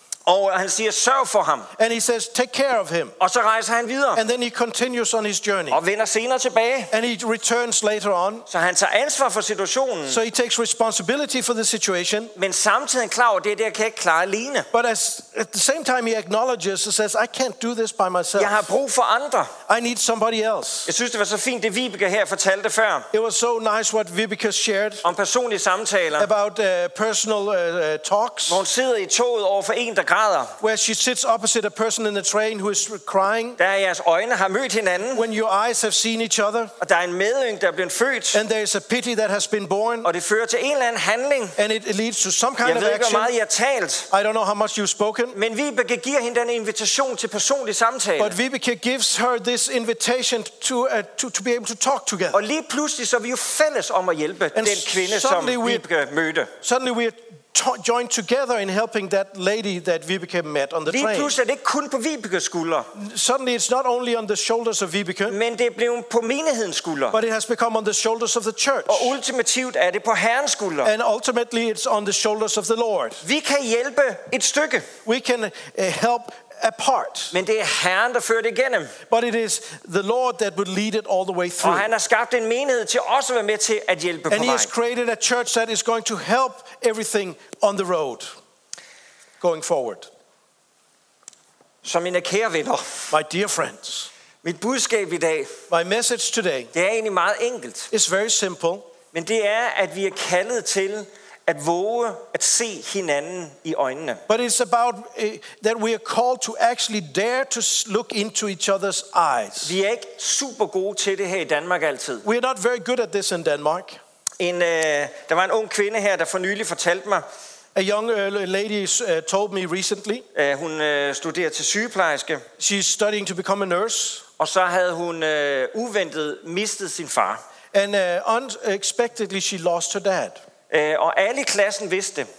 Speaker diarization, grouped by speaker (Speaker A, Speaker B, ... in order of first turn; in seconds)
Speaker A: 0.2-1.7, 3.2-4.2, 5.7-6.9, 8.5-10.2, 12.3-14.7, 18.4-19.5, 20.9-23.1, 25.0-26.3, 28.5-30.5, 33.6-35.2, 36.8-38.4, 40.0-41.5, 42.6-44.1, 45.3-48.4, 52.3-56.5, 60.9-62.9, 65.3-67.2, 68.9-70.9, 73.2-74.9, 77.3-78.9, 81.6-84.7, 91.8-93.1, 94.4-95.5, 96.7-97.9, 99.1-104.2, 109.6-112.2, 114.4-117.2, 120.3-122.4, 124.4-127.4, 130.7-132.3
Speaker B: 1.8-3.1, 4.1-5.8, 6.9-8.5, 10.1-12.3, 14.7-18.6, 19.7-20.9, 23.1-25.1, 26.2-28.6, 30.6-33.6, 35.1-36.7, 38.3-40.1, 41.6-43.3, 44.1-45.4, 48.2-52.4, 54.5-55.8, 56.6-61.4, 62.9-65.3, 67.1-69.2, 70.8-73.2, 75.0-77.3, 79.1-81.9, 84.3-88.3, 89.4-90.1, 93.1-94.1, 95.7-96.7, 97.9-98.9, 104.3-109.7, 112.2-114.0, 117.7-120.2, 122.6-124.2, 127.7-130.4